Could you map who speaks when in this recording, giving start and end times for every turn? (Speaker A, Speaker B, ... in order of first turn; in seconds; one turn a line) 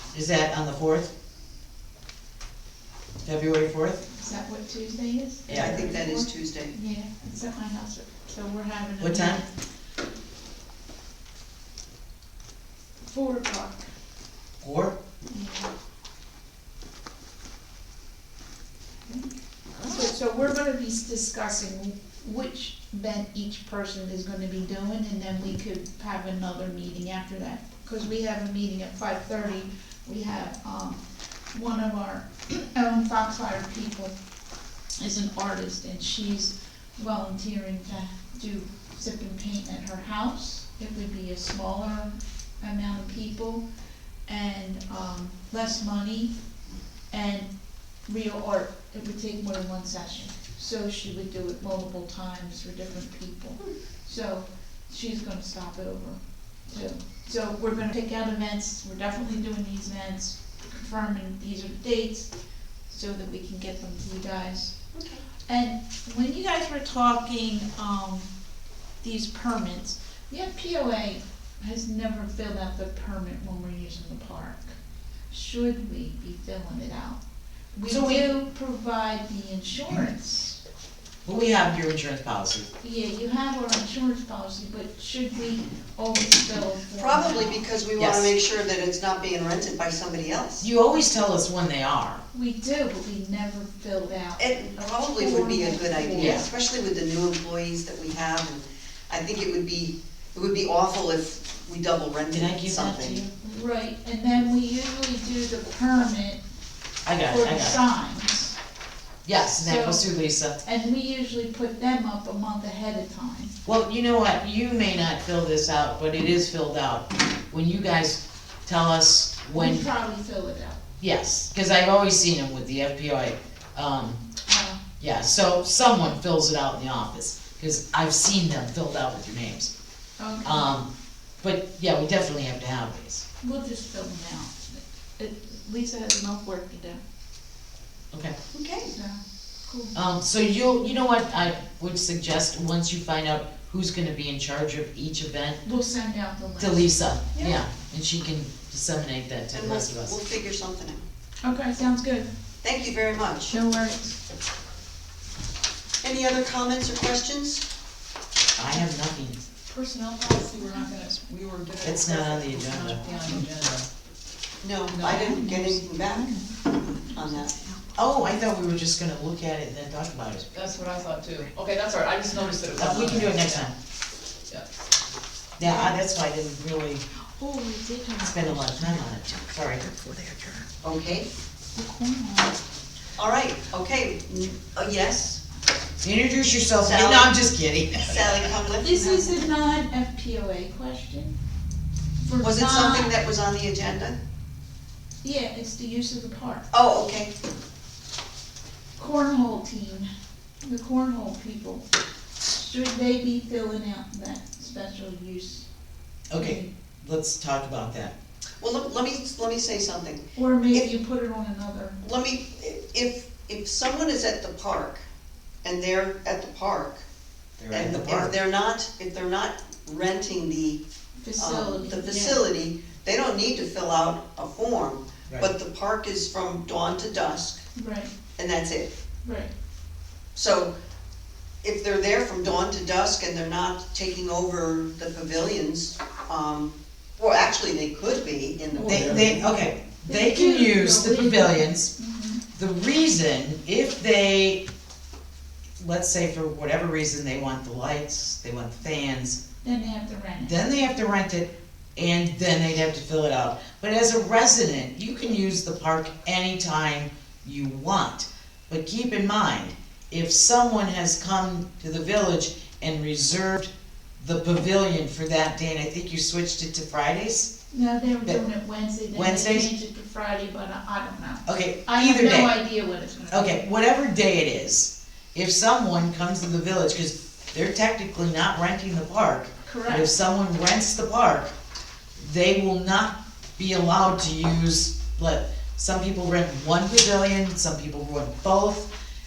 Speaker A: 0.1-1.1
Speaker A: 3.2-4.0
Speaker B: 4.1-9.5
Speaker A: 5.5-5.9
Speaker C: 5.5-6.8
Speaker A: 9.0-9.4
Speaker B: 13.0-13.9
Speaker A: 14.6-14.9
Speaker B: 15.3-15.7
Speaker B: 19.1-19.3
Speaker B: 19.8-34.1
Speaker B: 35.0-43.6
Speaker B: 44.3-46.3
Speaker B: 47.1-47.5
Speaker B: 48.0-62.3
Speaker B: 62.9-64.8
Speaker C: 64.9-65.2
Speaker B: 65.5-68.3
Speaker B: 69.0-74.8
Speaker B: 75.3-77.2
Speaker B: 77.8-80.6
Speaker A: 77.9-78.3
Speaker A: 81.2-82.7
Speaker B: 82.8-87.6
Speaker C: 87.0-90.7
Speaker A: 88.0-88.3
Speaker A: 90.6-92.2
Speaker B: 92.3-96.5
Speaker C: 94.4-103.2
Speaker A: 96.1-96.4
Speaker A: 102.3-103.6
Speaker B: 103.5-106.4
Speaker A: 107.0-107.8
Speaker B: 107.2-108.5
Speaker A: 109.2-110.6
Speaker B: 109.6-110.0
Speaker B: 110.6-113.5
Speaker A: 113.7-119.9
Speaker B: 119.5-120.8
Speaker A: 121.0-124.2
Speaker B: 124.5-124.8
Speaker A: 125.0-129.7
Speaker B: 130.2-130.8
Speaker A: 130.4-130.9
Speaker A: 131.4-133.2
Speaker B: 133.4-137.0
Speaker C: 138.5-138.9
Speaker B: 138.8-139.9
Speaker A: 139.9-145.6
Speaker B: 145.6-147.6
Speaker A: 146.6-150.2
Speaker C: 149.5-151.0
Speaker B: 151.4-152.3
Speaker C: 152.6-153.5
Speaker B: 153.5-154.2
Speaker C: 156.0-157.7
Speaker A: 158.6-159.4
Speaker D: 159.7-163.9
Speaker B: 160.5-161.1
Speaker A: 161.8-163.0
Speaker B: 163.0-163.4
Speaker C: 164.6-166.4
Speaker D: 164.9-165.4
Speaker B: 165.0-168.2
Speaker C: 167.2-167.6
Speaker A: 168.0-170.5
Speaker D: 170.5-173.7
Speaker A: 172.8-173.7
Speaker A: 175.6-177.0
Speaker B: 175.6-176.0
Speaker B: 177.2-179.8
Speaker A: 178.2-180.7
Speaker C: 180.8-181.3
Speaker B: 181.8-182.6
Speaker C: 183.2-185.4
Speaker A: 186.0-188.4
Speaker C: 186.8-187.3
Speaker C: 188.0-189.3
Speaker B: 188.7-191.3
Speaker B: 192.2-193.2
Speaker C: 192.4-194.2
Speaker B: 195.2-196.7
Speaker C: 196.7-197.3
Speaker B: 199.0-200.1
Speaker B: 200.6-201.8
Speaker B: 202.4-205.7
Speaker A: 206.3-208.1
Speaker B: 206.4-206.7
Speaker C: 208.6-210.9
Speaker B: 210.3-212.0
Speaker C: 212.0-215.0
Speaker C: 215.6-217.0
Speaker A: 217.6-218.3
Speaker C: 217.7-220.8
Speaker B: 221.2-222.4
Speaker C: 221.4-227.6
Speaker B: 227.8-228.1
Speaker C: 228.4-228.9
Speaker B: 229.2-229.5
Speaker C: 230.3-230.7
Speaker C: 231.6-239.5
Speaker D: 238.8-239.3
Speaker A: 238.8-241.9
Speaker B: 240.1-242.4
Speaker A: 242.5-244.6
Speaker A: 245.8-249.4
Speaker B: 249.6-250.6
Speaker A: 250.4-267.5
Speaker B: 267.7-273.6
Speaker A: 269.1-269.7
Speaker A: 271.4-272.5
Speaker A: 273.3-281.5
Speaker B: 279.6-280.1
Speaker A: 282.2-288.9